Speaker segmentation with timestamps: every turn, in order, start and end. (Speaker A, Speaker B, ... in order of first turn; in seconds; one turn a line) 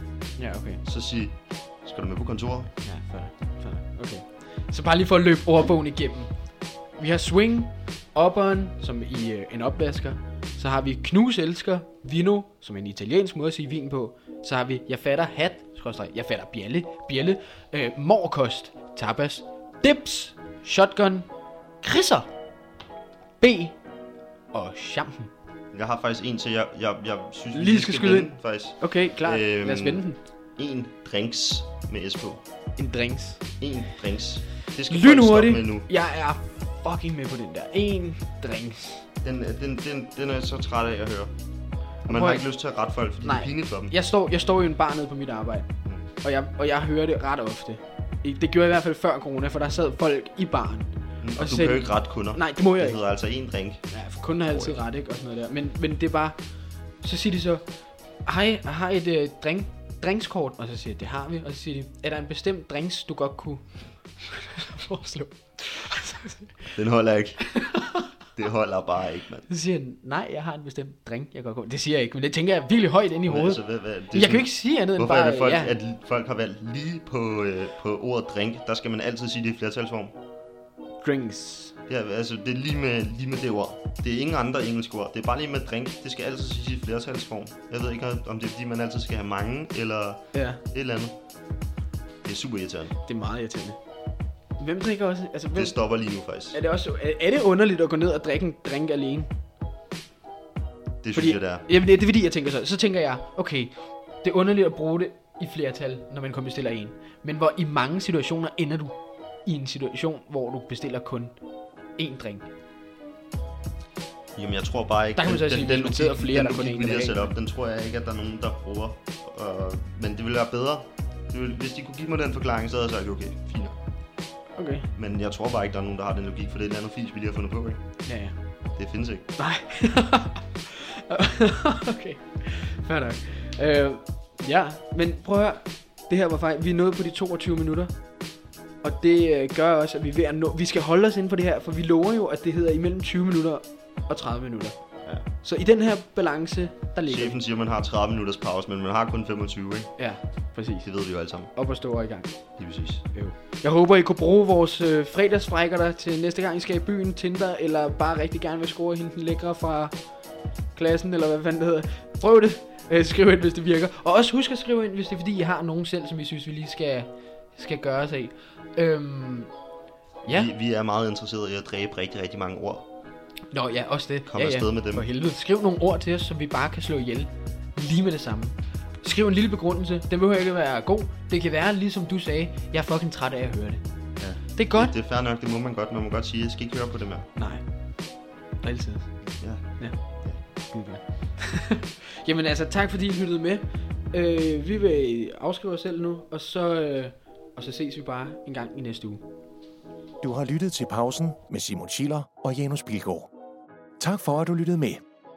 Speaker A: 0.4-0.8
Speaker B: 0.8-2.7
Speaker A: 2.8-21.3
Speaker A: 21.8-22.3
Speaker A: 23.4-23.8
Speaker A: 24.5-25.3
Speaker B: 25.7-32.4
Speaker A: 27.5-30.2
Speaker A: 32.8-33.4
Speaker B: 33.6-35.9
Speaker A: 34.9-39.1
Speaker B: 39.2-41.3
Speaker B: 42.1-43.9
Speaker A: 42.1-42.4
Speaker A: 43.2-45.7
Speaker A: 46.2-53.0
Speaker B: 51.2-54.8
Speaker A: 53.9-56.4
Speaker A: 57.0-57.6
Speaker A: 58.2-66.8
Speaker B: 66.7-67.7
Speaker A: 67.5-68.1
Speaker B: 68.3-69.5
Speaker A: 69.5-75.7
Speaker B: 73.3-80.1
Speaker A: 81.0-81.8
Speaker B: 81.9-91.1
Speaker A: 90.3-90.6
Speaker B: 92.2-93.0
Speaker A: 93.0-93.8
Speaker A: 94.6-95.8
Speaker B: 95.5-96.6
Speaker A: 96.5-99.3
Speaker B: 101.0-101.6
Speaker A: 101.1-111.3
Speaker A: 112.0-112.5
Speaker B: 114.3-123.8
Speaker A: 115.2-117.3
Speaker A: 124.5-124.9
Speaker B: 124.9-127.8
Speaker A: 128.1-128.3
Speaker B: 128.8-129.3
Speaker A: 129.4-138.0
Speaker A: 138.8-147.4
Speaker B: 147.1-150.0
Speaker A: 150.0-150.9
Speaker B: 150.8-151.5
Speaker A: 151.5-152.6
Speaker B: 152.6-153.1
Speaker A: 153.1-160.0
Speaker A: 160.7-169.5
Speaker A: 170.2-170.5
Speaker B: 170.3-172.9
Speaker A: 173.5-183.8
Speaker B: 174.3-175.1
Speaker B: 184.2-187.3
Speaker A: 184.5-184.9
Speaker A: 187.4-199.2
Speaker B: 189.4-190.4
Speaker C: 200.2-203.3
Speaker C: 204.0-205.0